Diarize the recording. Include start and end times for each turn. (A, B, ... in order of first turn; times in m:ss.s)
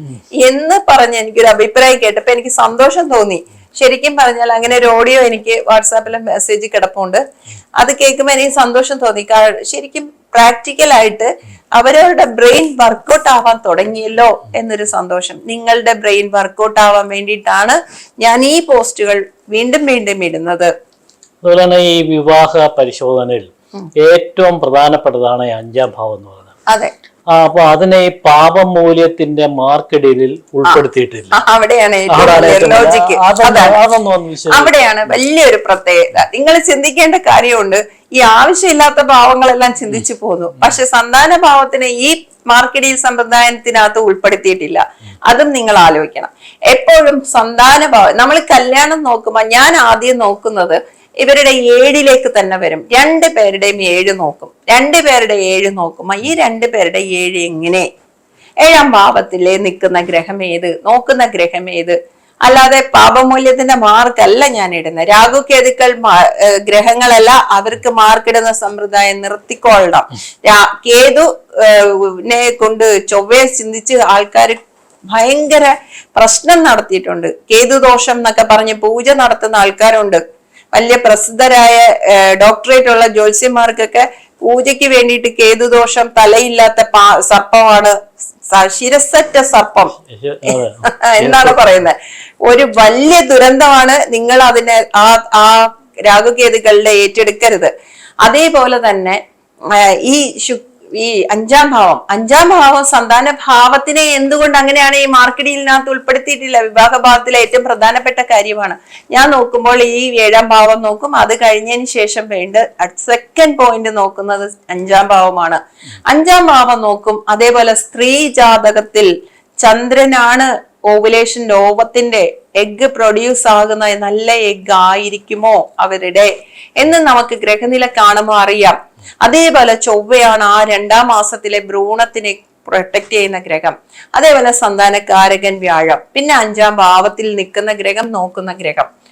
0:00.4-0:07.2 A
0:07.8-0:20.7 A
0:21.4-0:26.6 B
0:27.3-0:31.4 B
0:31.3-0:33.8 A
0:32.1-0:34.9 B
0:34.5-0:57.9 A
0:58.6-1:14.6 A
1:15.1-1:20.2 A
1:20.7-1:28.0 A
1:28.5-1:29.9 A
1:29.9-1:31.8 B
1:30.5-1:37.7 A
1:38.2-1:59.1 A
1:59.6-2:18.9 A